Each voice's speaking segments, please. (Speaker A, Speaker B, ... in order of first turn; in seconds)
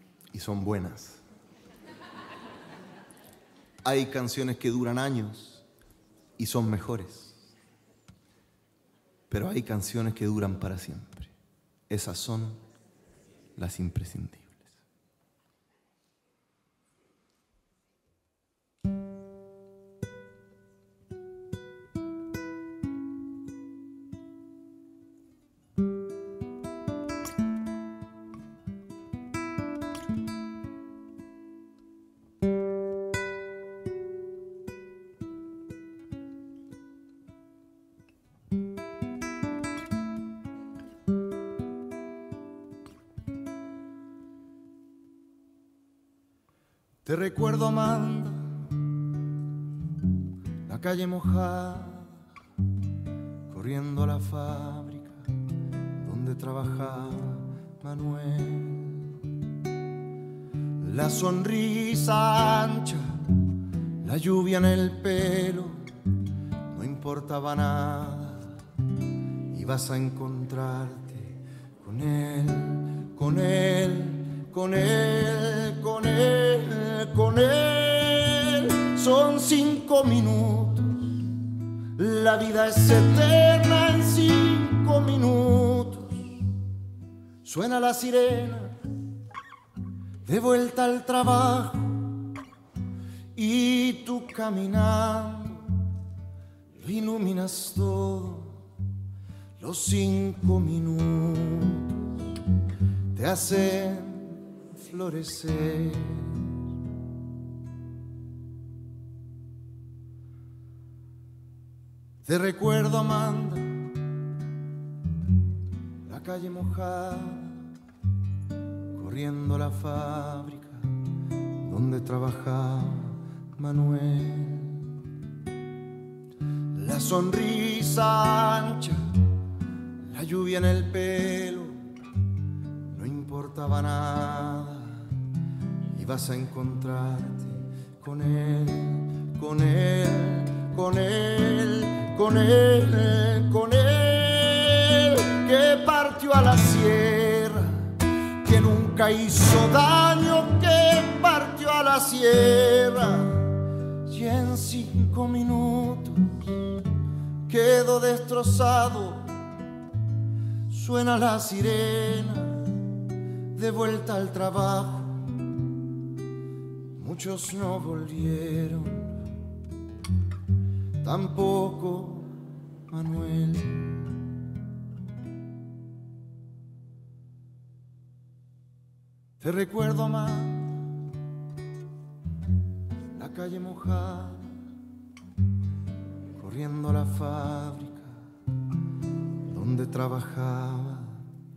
Speaker A: 0.3-1.2, 3.8-5.6, 6.4-7.3, 9.3-11.3, 11.9-12.6, 13.6-14.5, 47.0-48.7, 50.6-52.1, 53.5-55.2, 56.0-59.2, 60.8-63.4, 64.0-65.8, 66.7-68.6, 69.5-81.2, 81.9-86.4, 87.4-88.7, 90.2-92.3, 93.3-95.8, 96.8-98.6, 99.6-102.2, 103.1-106.5, 112.2-114.0, 116.0-117.7, 118.9-125.0, 126.7-129.2, 130.0-131.8, 132.9-135.2, 135.9-156.7, 157.5-159.3, 160.7-162.8, 163.5-165.3, 166.9-169.2, 171.0-174.3, 179.4-180.9, 183.1-184.5, 186.3-188.2, 189.4-191.2